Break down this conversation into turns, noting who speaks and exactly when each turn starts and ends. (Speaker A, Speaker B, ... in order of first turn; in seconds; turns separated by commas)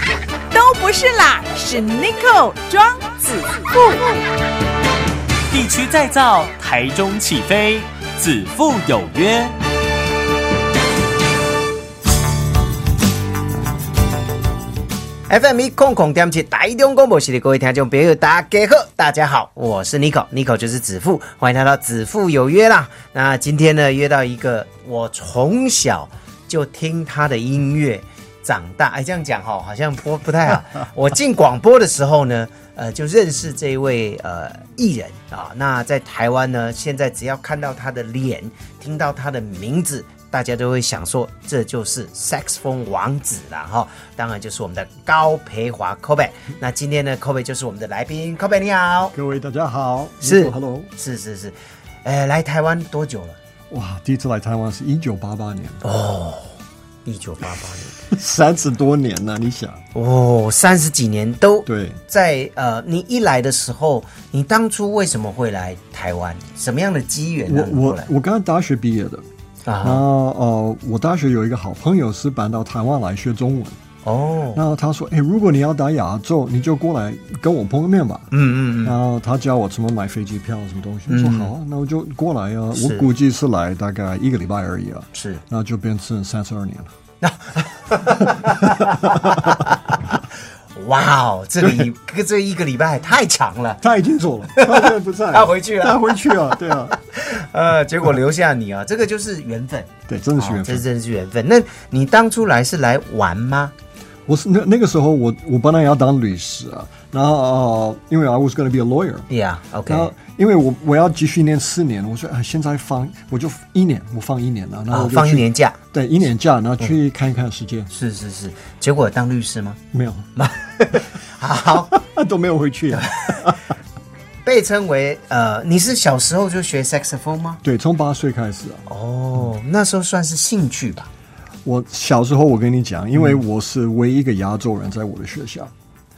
Speaker A: 0.5-4.1, Speaker B: 5.5-9.5, Speaker C: 15.3-49.1, Speaker D: 49.1-50.9, Speaker C: 50.2-53.4, Speaker D: 53.7-55.8, Speaker C: 55.8-58.0, Speaker D: 58.1-59.8, Speaker C: 59.9-68.1, Speaker D: 61.6-62.0, Speaker D: 67.5-69.2, Speaker C: 69.7-70.0, Speaker D: 69.8-73.8, Speaker C: 74.0-74.6, Speaker D: 74.5-78.3, Speaker C: 78.3-79.0, Speaker D: 78.8-86.9, Speaker C: 81.1-81.5, Speaker C: 82.7-83.1, Speaker C: 85.1-85.4, Speaker C: 87.2-90.2, Speaker D: 88.1-89.6, Speaker C: 90.7-93.8, Speaker D: 91.6-91.9, Speaker D: 93.8-97.0, Speaker C: 94.5-103.7, Speaker D: 100.1-100.8, Speaker D: 104.3-109.3, Speaker C: 109.3-110.1, Speaker D: 109.9-117.9, Speaker C: 114.9-115.8, Speaker C: 117.9-119.8, Speaker D: 119.9-120.3, Speaker C: 120.3-121.9, Speaker D: 121.9-123.6, Speaker C: 123.0-123.4, Speaker C: 124.4-127.6, Speaker D: 127.6-128.9, Speaker C: 128.9-131.1, Speaker D: 131.6-135.7